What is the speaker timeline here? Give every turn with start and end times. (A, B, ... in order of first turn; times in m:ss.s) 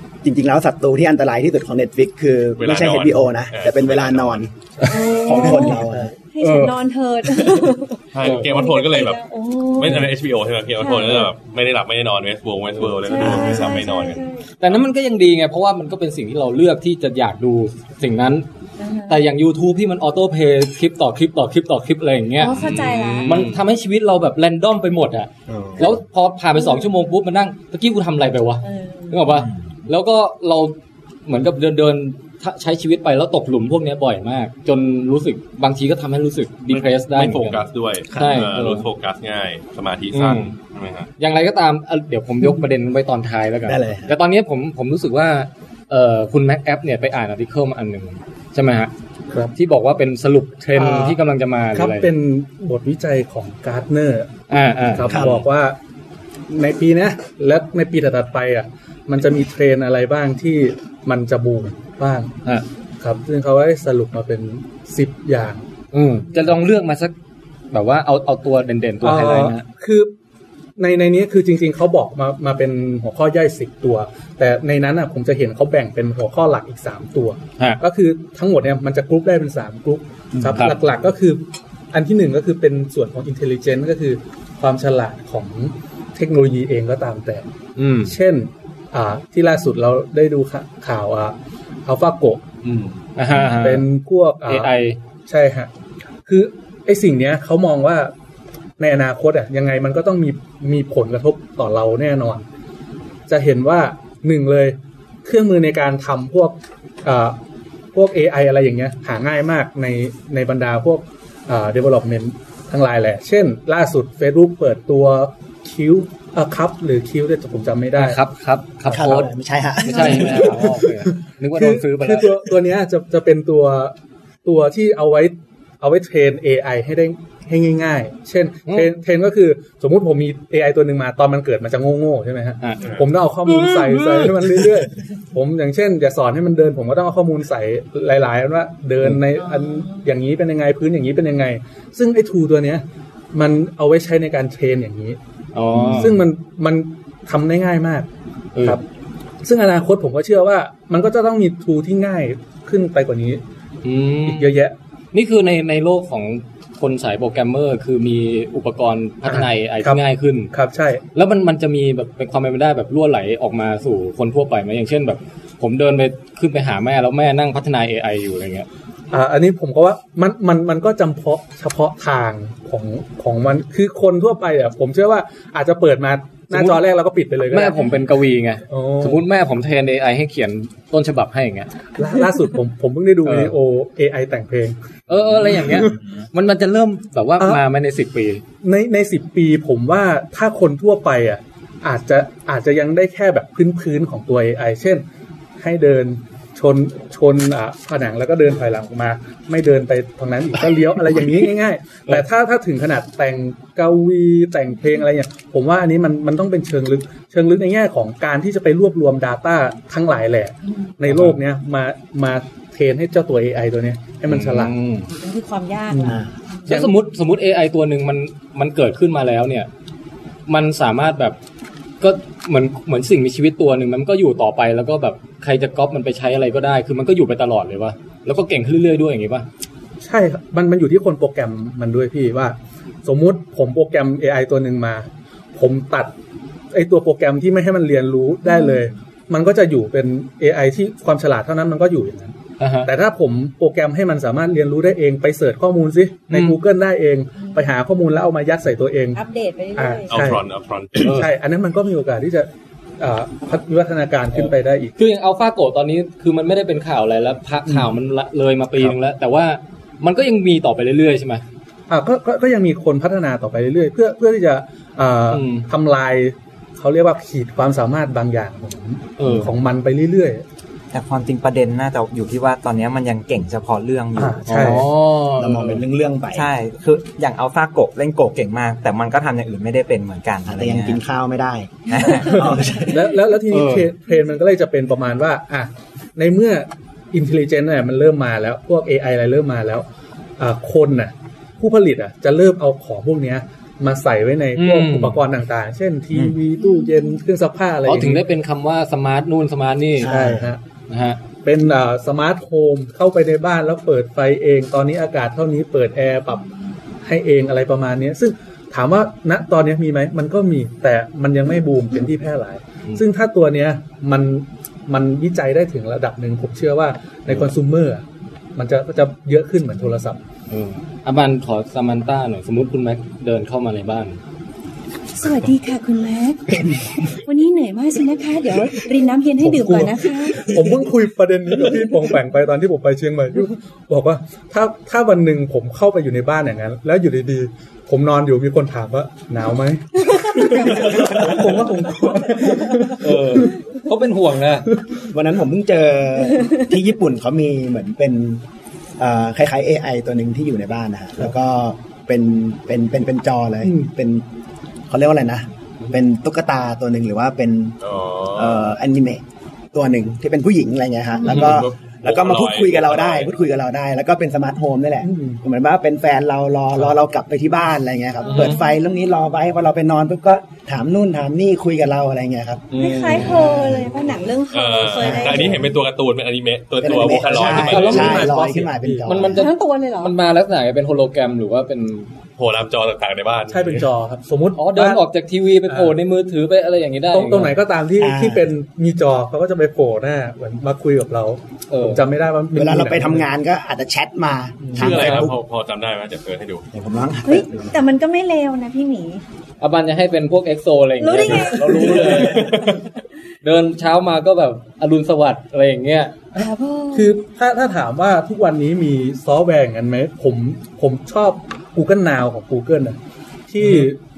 0:00.2-0:04.5 A
0:02.6-0:04.5 B
0:04.8-0:10.0 C
0:05.2-0:06.1 A
0:05.4-0:06.8 D
0:08.1-0:09.2 B
0:08.2-0:08.5 D
0:09.7-0:14.7 B
0:10.8-0:11.3 C
0:13.0-0:14.4 C
0:13.1-0:13.6 D
0:14.6-0:18.4 D
0:18.8-0:19.2 C
0:19.1-0:22.6 D
0:22.4-0:23.4 C
0:22.4-0:23.6 B
0:23.2-0:38.8 D
0:25.5-0:25.9 A
0:26.5-0:26.9 C
0:28.6-0:29.2 C
0:36.7-0:41.1 B
0:40.1-0:40.5 D
0:41.2-0:48.9 D
0:43.6-0:44.1 A
0:49.5-0:52.1 D
0:50.7-0:51.2 E
0:51.7-0:55.8 E
0:54.5-0:55.3 D
0:55.1-0:55.4 A
0:56.5-1:02.3 E
1:03.0-1:05.6 E
1:05.9-1:07.1 D
1:07.7-1:09.6 D
1:09.0-1:10.1 E
1:10.8-1:27.4 E
1:27.8-1:28.1 D
1:28.0-1:31.3 E
1:31.8-1:32.4 E
1:33.2-1:33.9 D
1:33.4-1:34.7 E
1:34.4-1:35.0 D
1:35.2-1:35.7 E
1:36.2-1:38.1 E
1:38.8-1:42.4 E
1:43.3-1:47.4 E
1:47.9-1:58.2 E
1:58.0-2:02.4 D
1:58.9-1:59.2 E
1:58.9-2:00.6 A
2:00.0-2:25.2 E
2:12.6-2:12.9 D
2:13.4-2:14.7 D
2:25.5-2:26.2 D
2:25.7-2:28.1 E
2:29.4-2:33.4 E
2:33.8-2:34.5 D
2:34.2-2:34.7 E
2:35.1-2:40.5 D
2:39.2-2:41.0 E
2:41.1-2:48.7 D
2:49.1-2:57.8 E
2:56.5-2:56.8 D
2:57.5-3:01.7 D
2:58.7-2:59.2 E
3:02.0-3:05.9 E
3:03.2-3:03.5 D
3:05.1-3:08.4 D
3:08.6-3:15.0 E
3:15.6-3:34.7 E
3:31.1-3:31.4 D
3:34.3-3:35.1 D
3:35.1-3:36.7 C
3:35.9-3:36.9 E
3:36.7-3:39.7 D
3:40.5-3:41.4 D
3:42.0-3:49.5 D
3:50.0-3:56.1 E
3:56.7-4:09.2 E
3:58.5-3:58.8 C
4:02.6-4:02.9 D
4:06.3-4:06.6 D
4:07.4-4:07.7 C
4:09.1-4:10.3 C
4:09.8-4:12.5 E
4:10.1-4:11.2 B
4:13.0-4:14.9 E
4:14.3-4:21.4 D
4:21.9-4:30.4 E
4:25.3-4:25.7 D
4:29.2-4:29.5 D
4:30.9-4:34.8 F
4:34.2-4:34.9 E
4:34.4-4:35.8 D
4:35.4-4:36.4 A
4:36.3-4:41.0 F
4:40.5-4:43.1 A
4:41.9-4:42.6 F
4:42.8-4:49.8 E
4:43.5-4:43.9 D
4:50.4-4:58.2 E
4:54.5-4:55.2 D
4:56.6-4:57.0 C
4:57.8-5:00.1 D
5:00.0-5:00.5 A
5:00.0-5:00.6 E
5:00.9-5:01.2 D
5:01.4-5:06.4 E
5:07.0-5:18.0 E
5:18.6-5:20.2 E
5:20.5-5:24.2 D
5:25.2-5:30.6 C
5:29.4-5:43.5 E
5:40.8-5:41.4 D
5:42.4-5:44.7 D
5:44.7-5:45.0 E
5:45.1-5:48.4 A
5:49.0-5:54.2 A
5:53.6-5:53.9 E
5:54.9-5:57.8 A
5:57.8-5:58.7 B
5:58.3-5:59.2 A
5:59.7-6:12.8 A
6:01.2-6:01.5 C
6:01.2-6:03.4 B
6:05.0-6:05.4 E
6:08.2-6:09.0 C
6:12.7-6:13.4 D
6:12.8-6:15.6 C
6:13.4-6:13.9 A
6:14.5-6:18.4 B
6:15.0-6:15.6 A
6:16.8-6:19.5 A
6:17.3-6:18.4 D
6:17.5-6:19.2 E
6:19.0-6:22.1 D
6:19.3-6:20.1 C
6:22.4-6:23.8 B
6:23.5-6:25.0 E
6:24.6-6:27.6 D
6:25.6-6:25.9 E
6:27.1-6:33.2 E
6:28.0-6:28.4 A
6:31.7-6:32.0 D
6:32.6-6:35.3 A
6:34.6-6:35.2 E
6:34.8-6:36.6 B
6:36.7-6:37.8 A
6:37.2-6:39.2 C
6:39.6-6:42.7 D
6:41.0-6:42.8 C
6:41.8-6:42.8 B
6:43.4-6:46.2 D
6:46.3-6:47.2 C
6:46.9-6:53.0 E
6:53.5-6:54.0 E
6:53.6-6:53.8 D